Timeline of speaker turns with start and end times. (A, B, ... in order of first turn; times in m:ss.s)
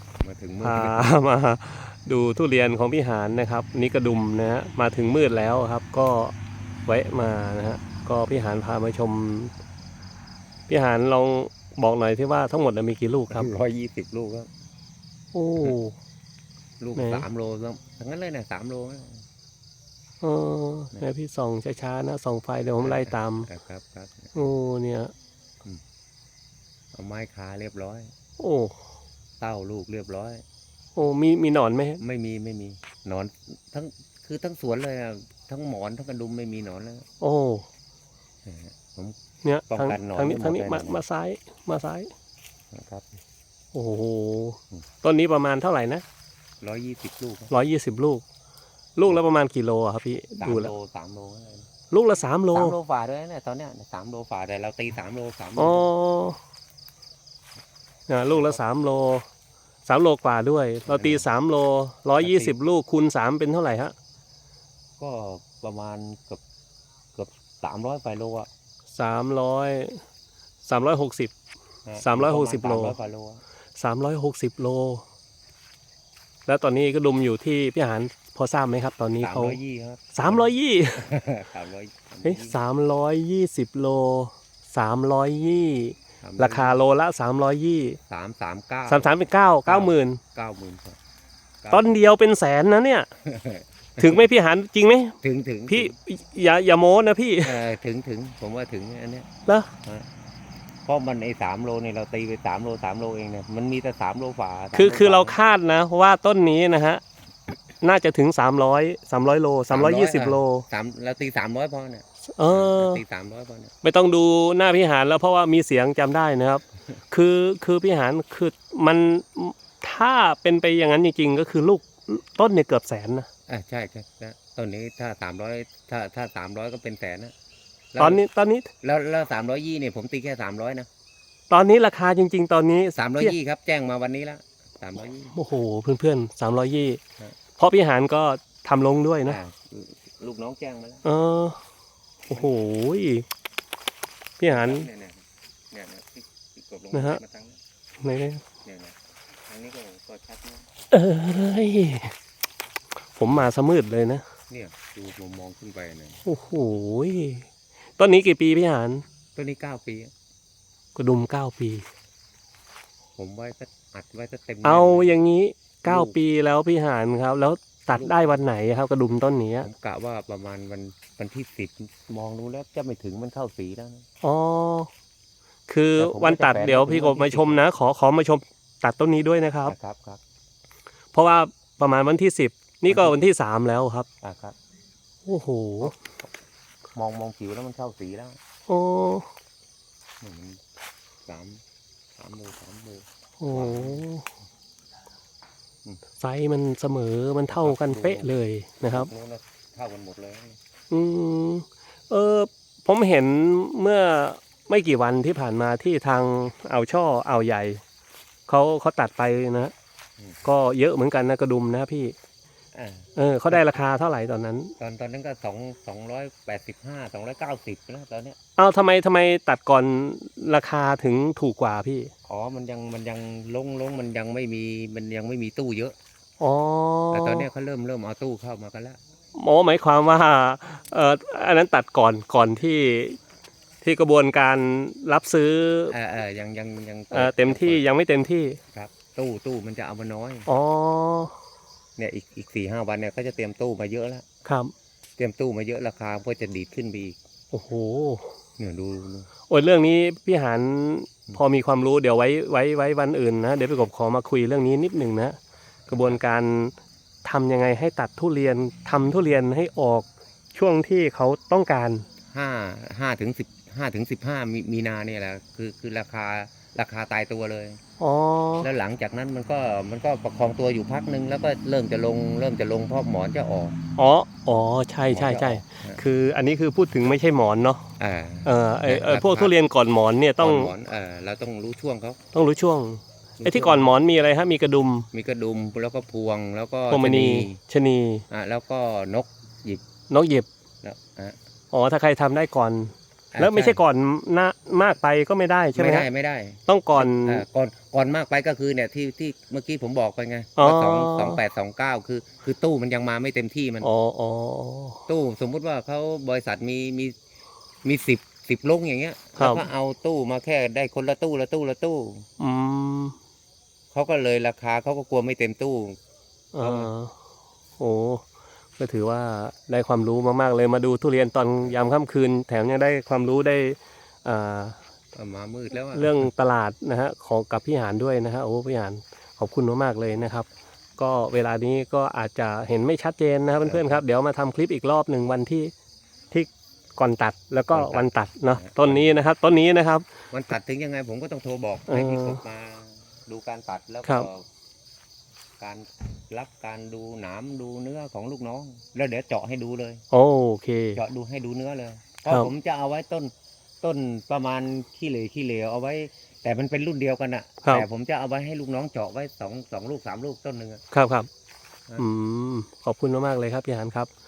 0:00.2-0:01.1 A
0:00.6-0:06.3 B
0:06.8-0:09.5 B
0:10.7-0:13.5 B
0:13.3-0:14.5 A
0:15.3-0:16.0 B
0:16.8-0:19.2 A
0:17.0-0:17.2 B
0:20.2-0:23.5 B
0:22.8-0:24.4 A
0:24.4-0:25.1 B
0:26.9-0:28.1 A
0:28.4-0:28.8 B
0:29.4-0:30.4 A
0:31.0-0:32.0 B
0:32.0-0:37.0 A
0:37.2-0:37.6 B
0:38.4-0:39.2 A
0:39.4-0:42.1 B
0:39.7-0:41.0 A
0:42.7-0:43.1 A
0:43.7-0:46.0 B
0:46.6-0:47.5 A
0:47.5-0:48.2 B
0:49.0-0:50.7 B
0:50.4-0:51.7 A
0:51.9-0:52.7 B
0:52.5-0:55.9 A
0:55.6-0:56.4 B
0:58.1-0:59.2 B
0:58.3-0:58.6 A
0:59.8-1:03.9 B
1:00.9-1:01.2 A
1:02.2-1:02.6 A
1:05.0-1:06.4 A
1:07.1-1:08.5 A
1:08.9-1:10.0 B
1:10.6-1:11.3 B
1:11.8-1:13.4 A
1:12.0-1:12.9 B
1:13.8-1:15.0 B
1:16.5-1:19.6 B
1:19.2-1:22.6 A
1:20.1-1:21.1 B
1:22.2-1:28.0 B
1:26.2-1:26.8 A
1:28.1-1:29.1 A
1:28.9-1:30.2 B
1:29.7-1:31.0 A
1:31.6-1:31.9 A
1:31.7-1:33.1 B
1:33.2-1:34.3 A
1:34.0-1:35.2 B
1:35.2-1:35.9 A
1:35.7-1:37.6 B
1:37.4-1:39.3 A
1:40.8-1:45.4 A
1:44.7-1:47.0 B
1:47.8-1:50.6 B
1:49.7-1:53.7 A
1:52.4-1:53.0 B
1:53.8-2:03.3 B
2:03.5-2:07.3 A
2:07.9-2:08.2 A
2:08.0-2:08.7 B
2:08.8-2:10.9 A
2:11.5-2:13.3 B
2:13.0-2:15.4 A
2:15.3-2:17.0 B
2:17.6-2:19.4 B
2:19.2-2:21.0 A
2:21.0-2:21.6 B
2:22.3-2:23.2 B
2:24.4-2:24.9 B
2:24.5-2:27.6 A
2:26.9-2:27.2 B
2:28.0-2:28.4 B
2:28.6-2:29.0 A
2:29.5-2:30.7 A
2:30.9-2:32.1 B
2:33.1-2:34.2 B
2:34.5-2:36.2 A
2:36.2-2:37.4 B
2:38.0-2:39.0 B
2:39.4-2:40.1 A
2:41.0-2:41.8 B
2:43.2-2:45.2 A
2:44.6-2:49.7 B
2:45.8-2:46.2 A
2:49.6-2:54.0 A
2:54.2-2:54.9 B
2:55.7-2:59.8 B
2:56.0-2:57.7 A
2:59.7-3:00.2 A
3:01.1-3:04.1 B
3:02.9-3:03.2 A
3:04.2-3:04.6 A
3:05.3-3:06.0 B
3:05.8-3:06.3 A
3:06.9-3:08.4 A
3:08.7-3:09.3 B
3:10.2-3:10.6 A
3:11.3-3:11.6 A
3:12.2-3:14.1 A
3:13.4-3:14.3 B
3:16.2-3:19.1 B
3:17.5-3:20.6 A
3:20.9-3:27.8 B
3:28.5-3:29.7 B
3:30.4-3:32.1 B
3:32.7-3:33.6 A
3:33.2-3:34.7 B
3:34.8-3:38.4 A
3:38.6-3:42.1 B
3:42.3-3:46.0 A
3:46.4-3:47.5 B
3:47.1-3:49.0 A
3:49.3-3:53.2 B
3:53.8-3:56.0 B
3:55.9-3:57.8 A
3:57.1-3:58.6 B
3:58.7-4:00.5 A
4:00.5-4:01.3 B
4:02.0-4:04.3 A
4:04.4-4:04.7 B
4:05.2-4:07.2 A
4:07.5-4:08.3 B
4:08.6-4:09.3 A
4:09.5-4:15.4 B
4:15.9-4:16.2 A
4:15.9-4:22.1 B
4:22.3-4:27.8 A
4:28.0-4:28.7 B
4:28.6-4:33.8 A
4:34.0-4:37.9 B
4:35.1-4:36.0 A
4:38.0-4:39.5 A
4:38.4-4:40.7 B
4:40.4-4:42.2 A
4:42.3-4:45.1 B
4:43.4-4:43.9 A
4:45.1-4:47.6 A
4:46.9-4:48.2 B
4:48.3-4:49.8 A
4:50.1-4:50.5 B
4:50.8-4:51.4 A
4:51.7-4:56.1 B
4:53.3-4:53.8 A
4:55.7-5:03.9 A
4:56.7-4:57.4 B
5:00.6-5:01.4 B
5:03.8-5:05.0 B
5:05.1-5:07.2 A
5:07.8-5:12.2 A
5:09.4-5:09.6 B
5:12.4-5:13.2 B
5:13.9-5:16.0 A
5:16.5-5:17.1 B
5:16.6-5:16.9 A
5:17.8-5:18.2 B
5:18.8-5:24.8 B
5:25.1-5:26.3 A
5:25.9-5:35.7 B
5:33.6-5:34.0 A
5:36.3-5:40.0 B
5:37.7-5:39.1 A
5:40.3-5:44.4 A
5:41.9-5:42.4 B
5:45.6-5:50.0 A
5:50.1-5:51.0 B
5:50.9-6:00.8 A
6:00.9-6:01.3 B
6:02.0-6:04.1 B